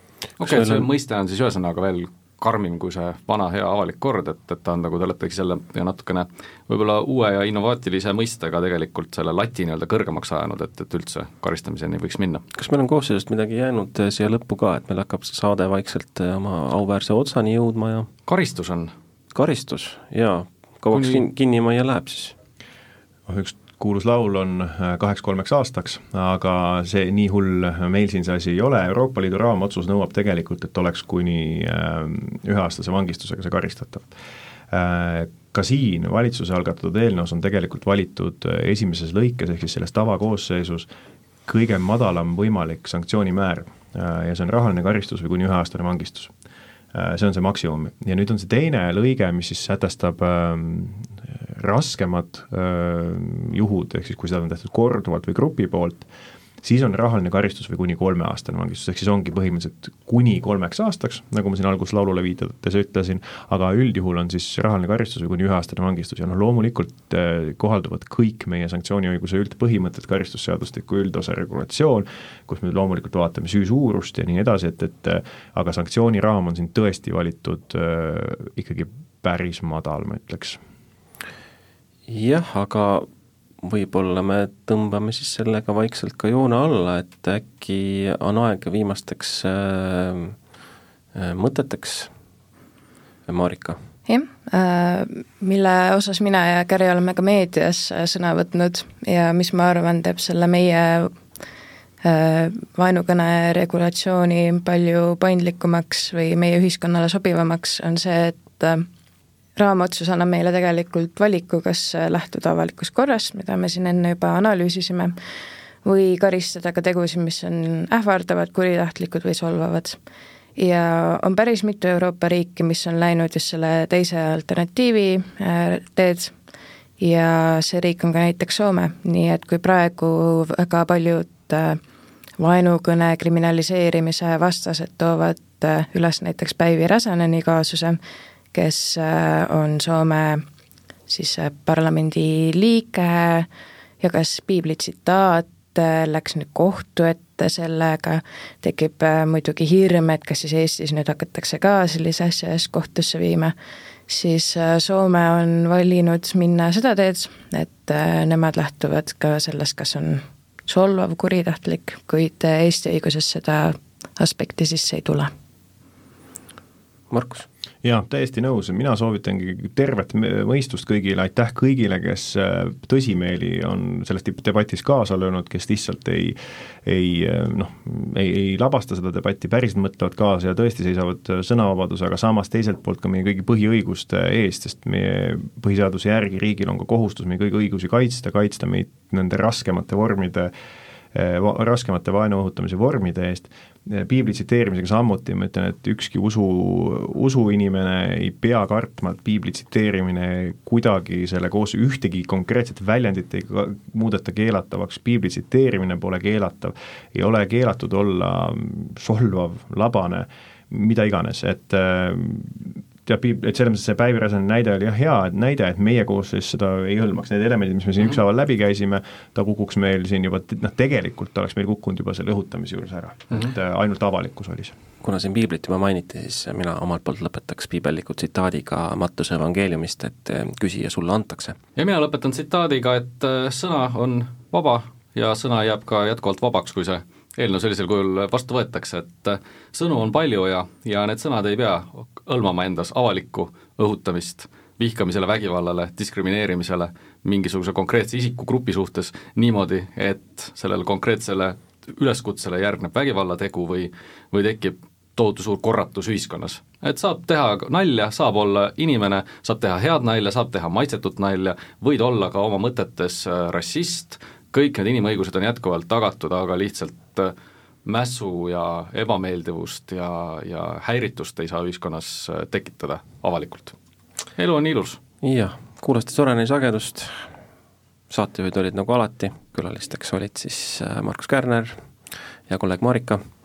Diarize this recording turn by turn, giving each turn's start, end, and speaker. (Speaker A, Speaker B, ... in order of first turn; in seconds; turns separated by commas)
Speaker A: 0.4-12.4, Speaker B: 0.4-0.9, Speaker B: 12.5-18.1, Speaker A: 18.3-18.9, Speaker B: 19.3-22.3, Speaker A: 20.9-21.2, Speaker C: 23.3-34.1, Speaker C: 34.7-40.9, Speaker C: 41.5-46.3, Speaker C: 46.9-56.1, Speaker C: 56.6-80.6, Speaker B: 82.1-83.1, Speaker B: 83.6-90.3, Speaker B: 91.1-92.1, Speaker B: 93.3-93.8, Speaker D: 94.1-101.1, Speaker D: 102.0-108.8, Speaker D: 109.6-115.1, Speaker D: 115.8-120.0, Speaker D: 120.6-126.3, Speaker D: 127.0-131.8, Speaker D: 132.4-138.0, Speaker D: 138.5-140.4, Speaker D: 141.1-143.5, Speaker D: 144.0-153.5, Speaker D: 154.1-165.3, Speaker B: 167.1-167.5, Speaker C: 167.8-190.5, Speaker C: 191.1-224.7, Speaker B: 225.0-231.6, Speaker A: 231.8-267.3, Speaker A: 267.8-273.7, Speaker A: 274.4-275.0, Speaker B: 275.2-277.1, Speaker B: 278.1-281.8, Speaker B: 282.5-283.2